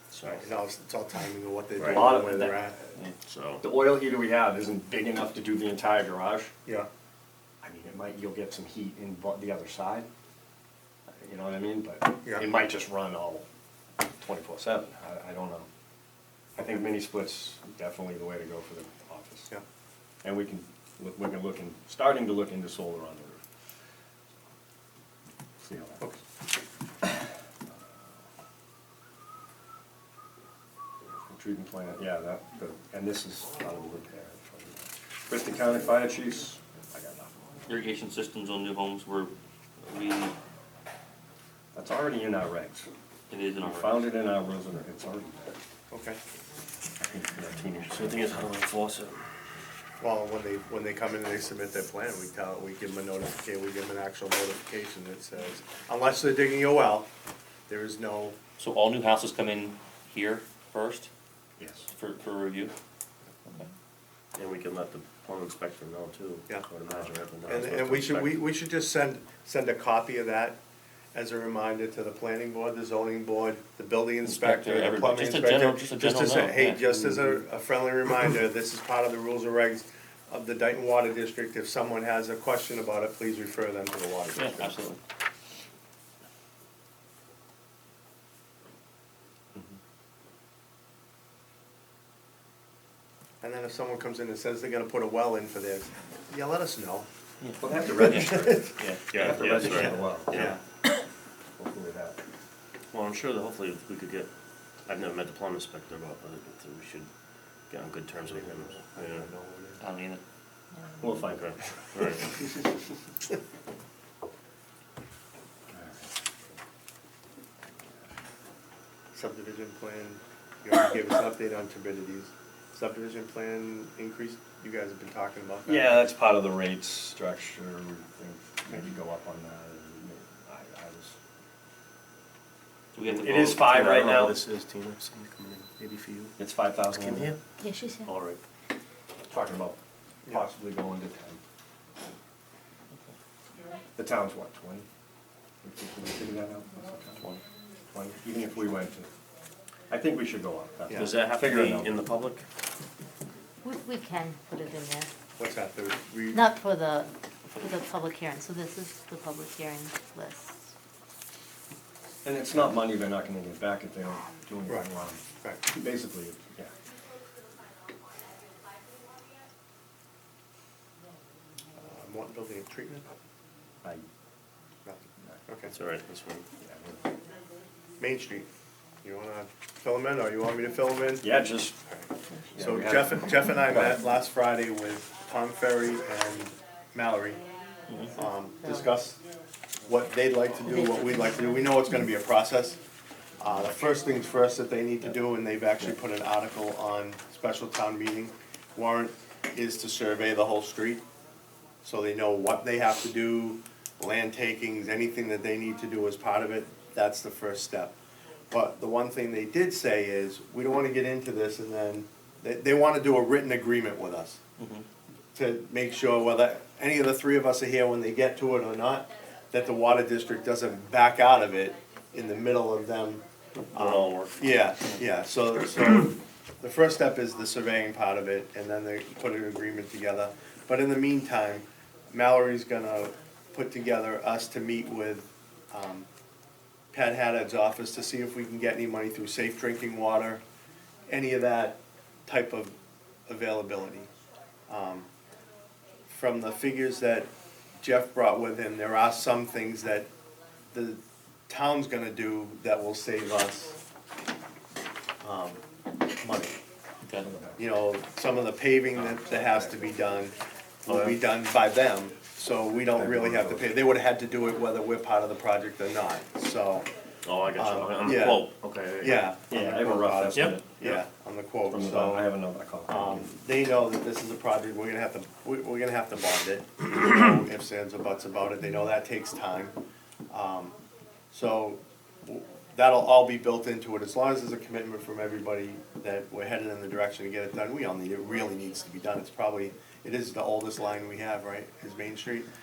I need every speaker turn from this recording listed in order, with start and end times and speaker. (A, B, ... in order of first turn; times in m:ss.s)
0:00.1-0:00.5 A
0:00.3-0:02.8 B
0:01.8-0:02.1 A
0:01.8-0:02.9 C
0:03.2-0:03.6 A
0:03.6-0:06.5 C
0:07.6-0:10.1 C
0:11.2-0:13.4 C
0:14.0-0:15.7 C
0:16.6-0:19.5 C
0:20.2-0:23.4 C
0:25.6-0:26.1 C
0:31.2-0:37.6 C
0:37.7-0:40.4 D
0:41.7-0:42.9 C
0:43.3-0:44.1 D
0:43.6-0:45.6 C
0:45.9-0:46.2 B
0:47.0-0:48.6 C
0:47.9-0:49.3 A
0:50.0-0:57.1 B
0:57.7-0:58.4 B
0:58.6-1:01.1 D
1:01.6-1:01.9 C
1:01.9-1:02.7 D
1:04.4-1:08.4 A
1:07.5-1:10.6 B
1:11.1-1:24.9 B
1:14.2-1:17.2 D
1:24.4-1:25.0 D
1:33.4-1:37.1 B
1:37.4-1:39.6 D
1:37.6-1:40.3 C
1:37.8-1:38.7 B
1:39.1-1:40.6 A
1:39.7-1:40.6 B
1:41.6-1:42.2 C
1:42.9-1:44.3 A
1:44.9-1:47.1 A
1:47.7-1:49.3 A
1:48.6-1:49.8 B
1:49.8-1:50.2 D
1:50.8-1:51.2 E
1:51.0-1:52.0 C
1:51.2-1:52.5 A
1:55.7-1:56.1 C
1:59.1-2:06.0 B
2:05.7-2:11.2 C
2:12.9-2:13.7 D
2:13.1-2:14.4 C
2:13.4-2:16.3 A
2:16.4-2:17.4 C
2:16.9-2:17.4 A
2:17.6-2:18.1 E
2:18.1-2:18.4 A
2:19.3-2:21.4 C
2:24.0-2:24.9 C
2:25.6-2:27.3 C
2:27.2-2:27.4 D
2:27.9-2:29.1 C
2:29.9-2:32.0 C
2:30.9-2:31.2 B
2:30.9-2:32.5 A
2:33.6-2:35.1 E
2:35.4-2:36.4 B
2:36.3-2:40.7 E
2:42.2-2:46.7 C
2:51.8-2:53.0 B
2:54.8-2:55.7 B
2:55.7-2:56.5 A
2:56.6-2:57.1 C
2:58.0-2:58.5 B
2:59.0-3:01.3 B
3:01.2-3:01.8 C
3:01.8-3:07.4 B
3:02.3-3:02.7 E
3:02.5-3:04.0 C
3:07.9-3:08.2 D
3:08.1-3:09.2 B
3:08.5-3:09.0 E
3:09.9-3:12.8 B
3:10.6-3:12.1 E
3:13.4-3:21.0 B
3:21.8-3:28.0 B
3:28.5-3:34.4 B
3:34.6-3:34.9 D
3:35.4-3:56.1 B
3:43.7-3:44.4 A
3:56.9-4:00.4 B
4:01.1-4:04.1 B
4:04.7-4:05.1 B
4:06.1-4:10.1 B
4:10.7-4:13.8 B
4:15.2-4:15.6 B
4:16.1-4:16.6 B
4:17.2-4:17.6 C
4:17.6-4:26.9 B
4:19.0-4:19.2 A
4:20.9-4:21.2 A
4:23.0-4:23.7 C
4:27.2-4:29.3 A
4:27.6-4:32.3 B
4:29.5-4:30.7 C
4:30.3-4:30.9 A
4:31.7-4:33.3 C
4:32.9-4:39.8 B
4:40.3-4:40.8 B
4:41.3-4:52.5 B